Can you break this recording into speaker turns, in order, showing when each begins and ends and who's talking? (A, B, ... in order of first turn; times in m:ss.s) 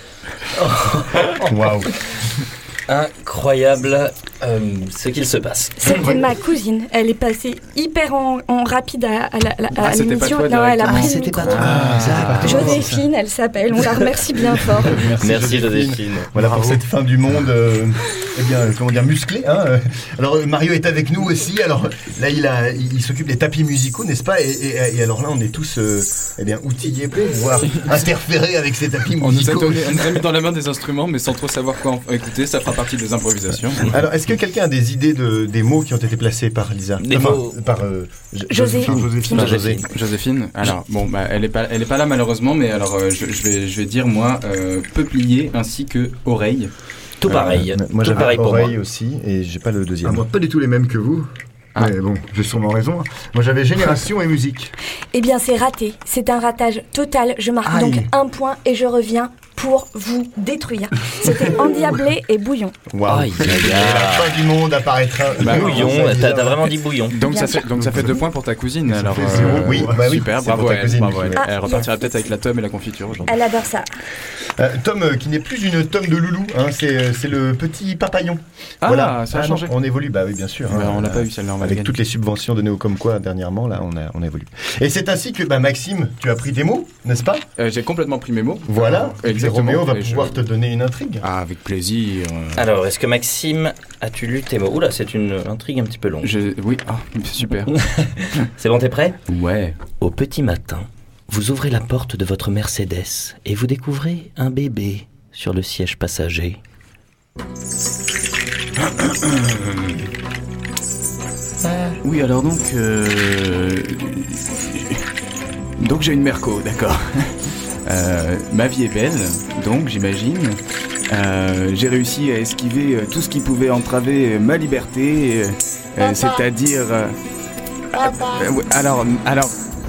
0:00.5-0:01.4 A
0:01.4-0:01.9 B
0:02.9-0:05.9 A
0:05.8-0:11.7 C
0:09.8-0:12.6 D
0:10.9-0:12.8 A
0:11.1-0:13.0 B
0:12.4-0:15.0 C
0:14.8-0:30.2 B
0:15.2-0:16.3 A
0:16.4-0:16.8 E
0:29.2-0:33.9 D
0:33.8-0:39.8 B
0:37.0-0:37.6 A
0:38.5-0:39.6 C
0:38.8-0:39.5 E
0:39.3-0:39.9 A
0:39.8-0:46.7 D
0:47.2-0:48.8 A
0:47.2-0:50.2 B
0:50.0-0:54.7 E
0:55.1-1:02.7 C
0:57.7-0:58.1 E
1:02.9-1:06.7 B
1:03.0-1:04.4 A
1:05.4-1:05.9 D
1:05.4-1:07.2 A
1:07.1-1:13.4 D
1:07.2-1:08.1 C
1:07.7-1:08.2 E
1:08.9-1:10.1 E
1:09.3-1:11.4 B
1:11.4-1:11.9 C
1:13.2-1:13.9 C
1:14.6-1:27.4 B
1:18.8-1:19.7 D
1:20.7-1:21.9 D
1:27.6-1:30.4 D
1:28.7-1:31.2 B
1:31.2-1:32.6 D
1:32.5-1:36.3 A
1:36.2-1:37.8 D
1:37.7-1:39.2 A
1:39.3-1:39.8 D
1:40.0-1:46.6 A
1:49.0-1:49.9 D
1:51.6-1:51.9 A
1:52.0-1:55.0 D
1:55.8-2:00.6 D
2:01.1-2:07.1 D
2:07.9-2:09.5 D